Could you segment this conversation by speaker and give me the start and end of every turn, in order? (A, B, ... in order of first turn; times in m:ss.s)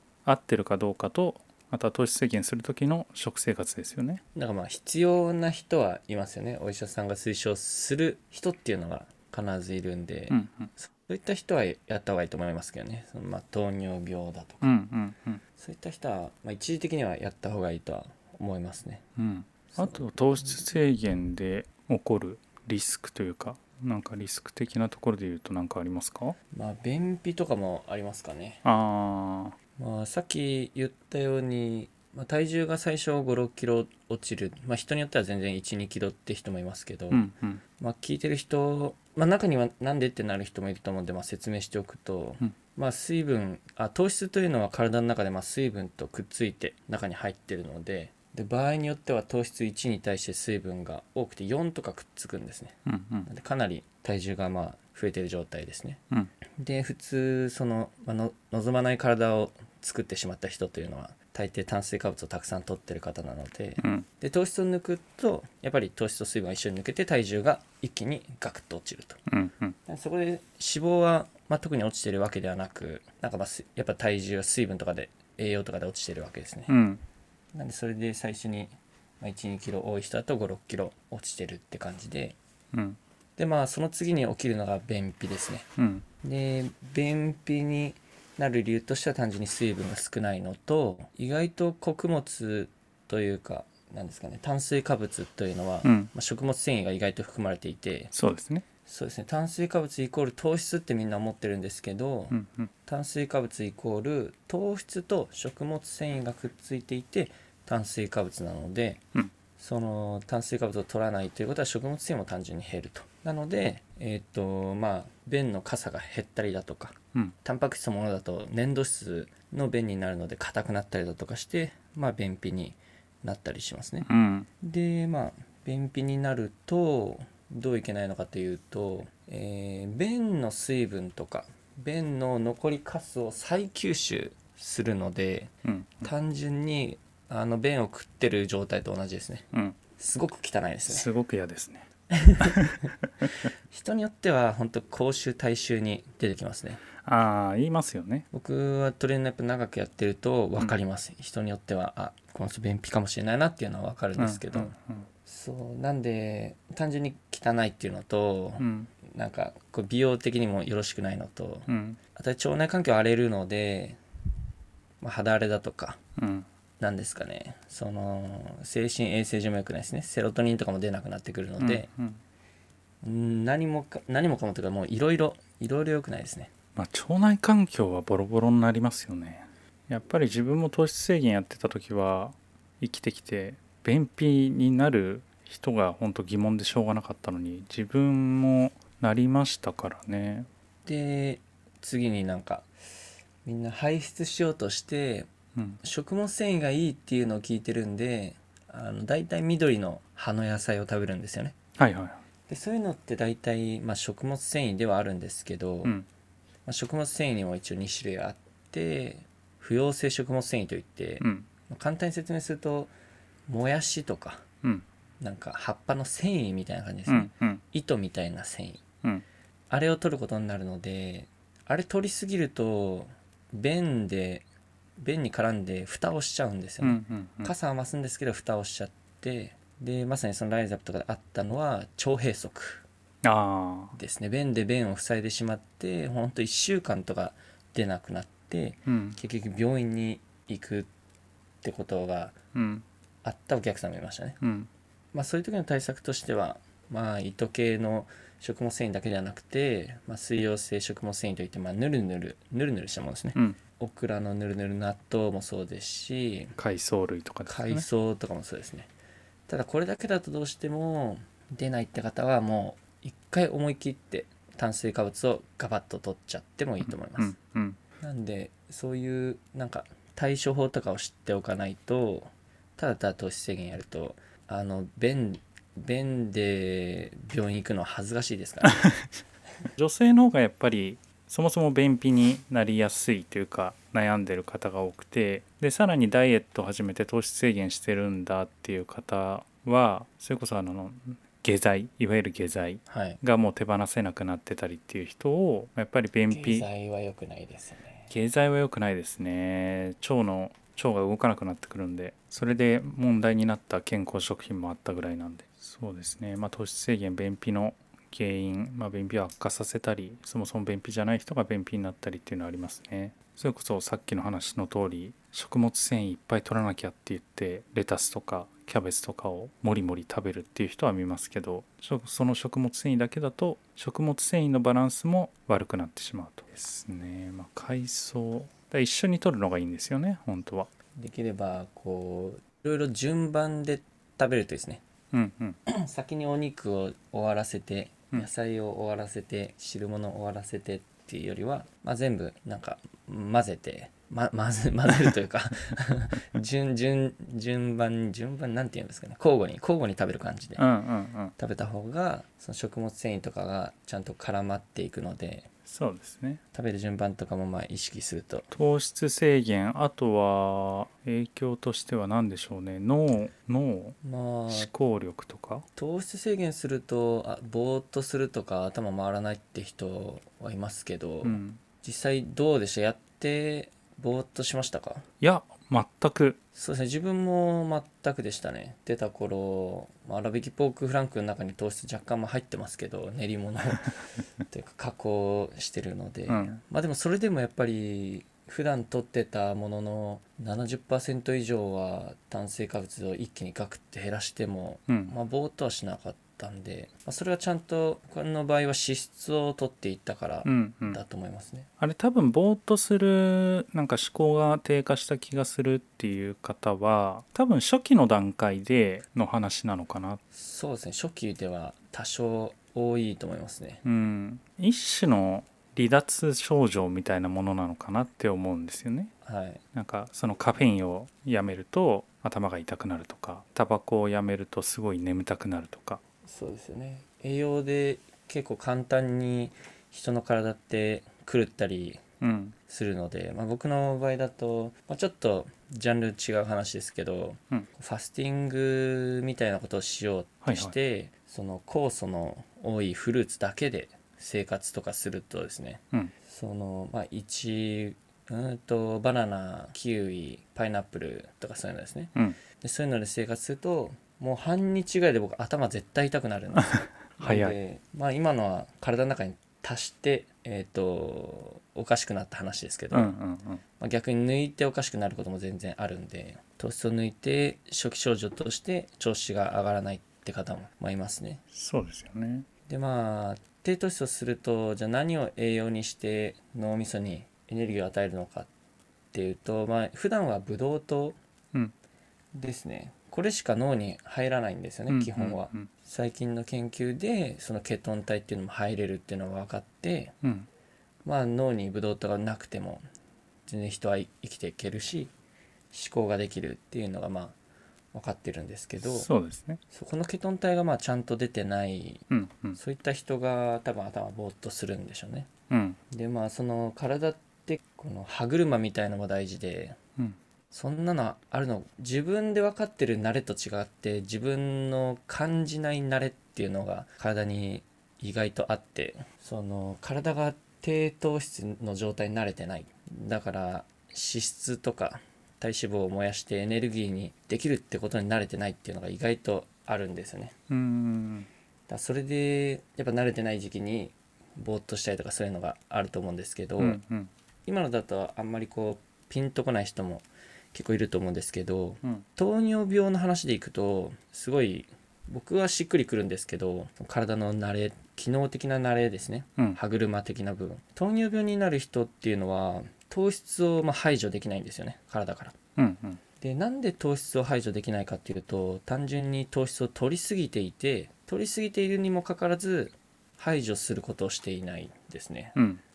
0:00.2-0:04.2 A
0:04.3-0:14.7 B
0:10.3-0:10.7 A
0:14.6-0:15.4 A
0:15.6-0:19.0 B
0:19.2-0:26.4 A
0:19.7-0:20.6 B
0:26.5-0:28.6 B
0:28.6-0:29.6 A
0:29.8-0:56.0 B
0:37.1-0:37.6 A
0:52.8-0:53.3 A
0:56.6-1:09.2 B
1:03.8-1:04.0 A
1:09.3-1:09.7 A
1:09.8-1:16.7 B
1:16.7-1:17.0 A
1:17.5-1:22.4 B
1:22.7-1:23.0 A
1:23.4-1:25.7 B
1:25.8-1:26.0 A
1:26.2-1:38.1 B
1:35.8-1:36.1 A
1:38.1-1:38.6 A
1:38.8-1:42.3 B
1:42.3-1:42.7 A
1:42.8-1:49.0 B
1:49.6-2:04.1 B
2:04.0-2:04.5 A
2:04.6-2:21.1 B
2:15.6-2:16.1 A
2:20.9-2:21.9 A
2:22.1-2:22.9 B
2:22.4-2:23.3 A
2:23.7-2:26.8 B
2:27.0-2:28.2 A
2:28.3-2:34.7 B
2:34.2-2:35.1 A
2:35.2-2:44.0 B
2:38.6-2:38.9 A
2:41.7-2:42.0 A
2:45.0-2:46.0 B
2:46.2-2:46.4 A
2:46.8-2:51.9 B
2:51.6-2:52.2 A
2:53.0-2:56.5 B
2:56.8-3:10.5 A
3:10.8-3:12.7 B
3:13.4-3:15.3 B
3:15.8-3:21.6 B
3:21.8-3:22.2 A
3:22.5-3:25.9 B
3:26.6-3:32.9 B
3:31.2-3:31.4 A
3:33.5-3:34.4 B
3:35.2-3:38.8 B
3:37.1-3:37.6 A
3:39.7-3:44.4 B
3:45.0-3:52.8 B
3:46.8-3:47.5 A
3:53.2-3:54.0 A
3:53.9-4:00.9 B
3:58.8-3:59.2 A
4:01.6-4:02.4 B
4:02.5-4:02.8 A
4:03.2-4:04.4 B
4:04.4-4:04.7 A
4:05.1-4:16.5 B
4:16.6-4:17.8 A
4:17.5-4:18.9 B
4:19.5-4:27.3 B
4:26.8-4:27.8 A
4:28.0-4:38.8 B
4:38.6-4:39.0 A
4:39.8-4:56.7 A
4:52.9-4:53.2 B
4:56.3-4:58.1 B
4:58.1-5:30.7 A
5:30.9-5:34.8 B
5:35.1-5:35.6 A
5:35.7-5:50.6 B
5:50.6-5:51.3 A
5:51.4-5:55.5 B
5:55.6-5:56.4 A
5:56.5-5:58.5 B
5:58.5-6:04.0 A
6:04.0-6:04.7 B
6:04.5-6:05.6 A
6:05.8-6:15.0 B
6:11.2-6:11.6 A
6:15.2-6:16.4 A
6:16.5-6:41.7 B
6:26.3-6:26.6 A
6:34.9-6:35.1 A
6:40.4-6:41.0 A
6:41.8-6:50.2 A
6:50.3-6:53.8 B
6:53.8-6:59.1 A
6:59.2-6:59.6 B
6:59.7-7:06.0 A
7:06.2-7:12.0 B
7:12.2-7:12.5 A
7:12.7-7:43.1 B
7:20.4-7:20.7 A
7:36.6-7:37.6 A
7:42.9-7:43.6 A
7:43.8-7:51.4 B
7:51.5-7:52.4 A
7:52.7-7:58.5 B
7:59.1-8:01.2 B
8:02.3-8:10.1 B
8:04.9-8:05.7 A
8:10.2-8:10.5 A
8:11.0-8:12.8 B
8:13.5-8:15.1 B
8:15.7-8:17.4 B
8:17.9-8:19.1 B
8:18.8-8:19.6 A
8:19.7-8:22.0 B
8:22.1-8:22.6 A
8:22.6-8:25.3 B
8:25.5-8:25.8 A
8:25.9-8:29.8 B
8:30.5-8:50.3 B
8:50.5-8:51.3 A
8:51.7-8:56.8 B
8:56.6-8:57.1 A
8:57.4-9:15.4 B
9:15.6-9:16.0 A
9:16.2-9:25.3 B
9:25.4-9:25.6 A